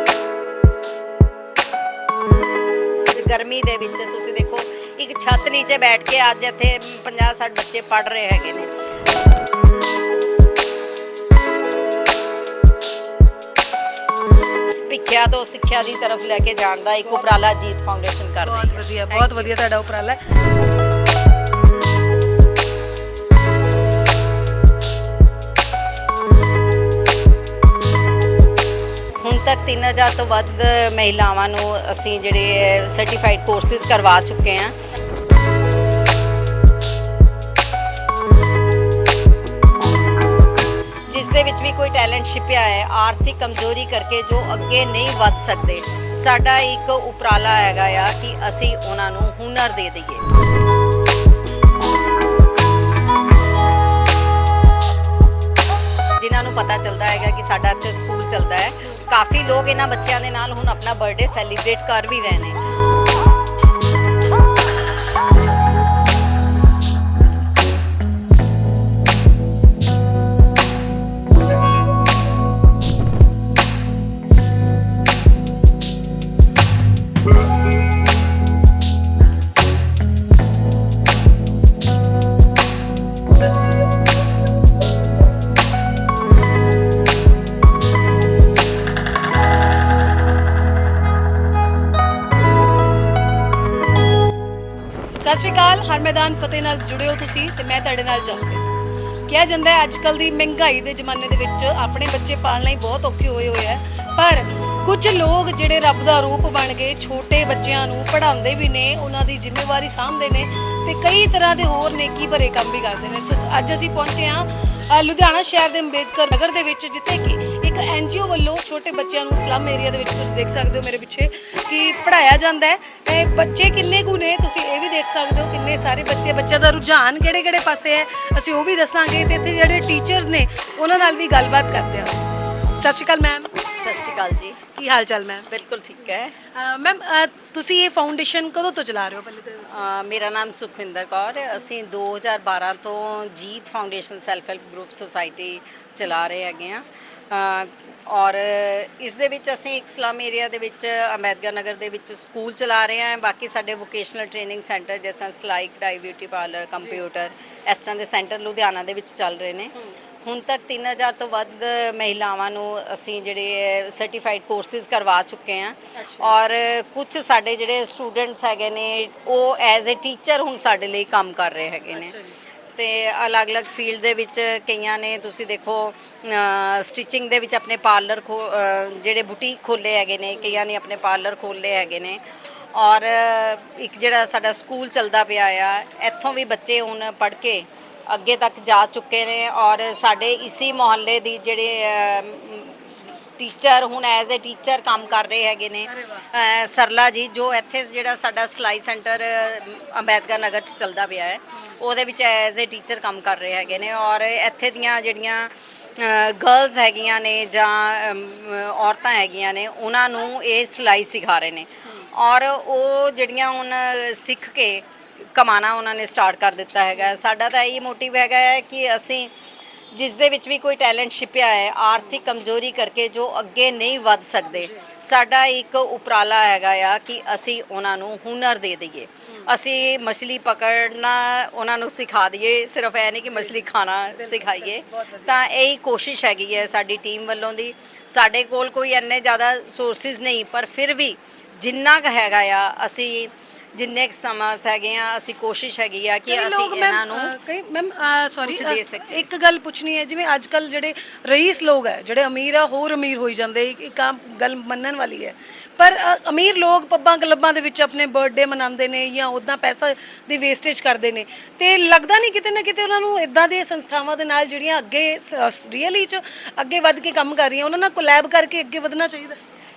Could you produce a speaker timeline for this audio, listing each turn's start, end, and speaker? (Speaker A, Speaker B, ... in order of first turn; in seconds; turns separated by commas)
Speaker A: 3.1-8.7, Speaker A: 14.9-19.5, Speaker B: 18.4-20.2, Speaker A: 29.2-34.7, Speaker A: 41.1-50.2, Speaker A: 56.2-62.6, Speaker B: 95.2-98.7, Speaker B: 99.3-133.5, Speaker A: 133.7-134.6, Speaker B: 134.7-135.5, Speaker A: 135.5-136.3, Speaker B: 136.5-139.8, Speaker A: 139.7-159.7, Speaker A: 160.2-172.2, Speaker B: 165.9-166.4, Speaker B: 171.9-172.3, Speaker A: 172.7-182.2, Speaker A: 182.7-219.3, Speaker B: 195.9-196.2, Speaker A: 219.9-247.3, Speaker B: 233.3-235.4, Speaker B: 246.3-269.4, Speaker A: 248.4-249.2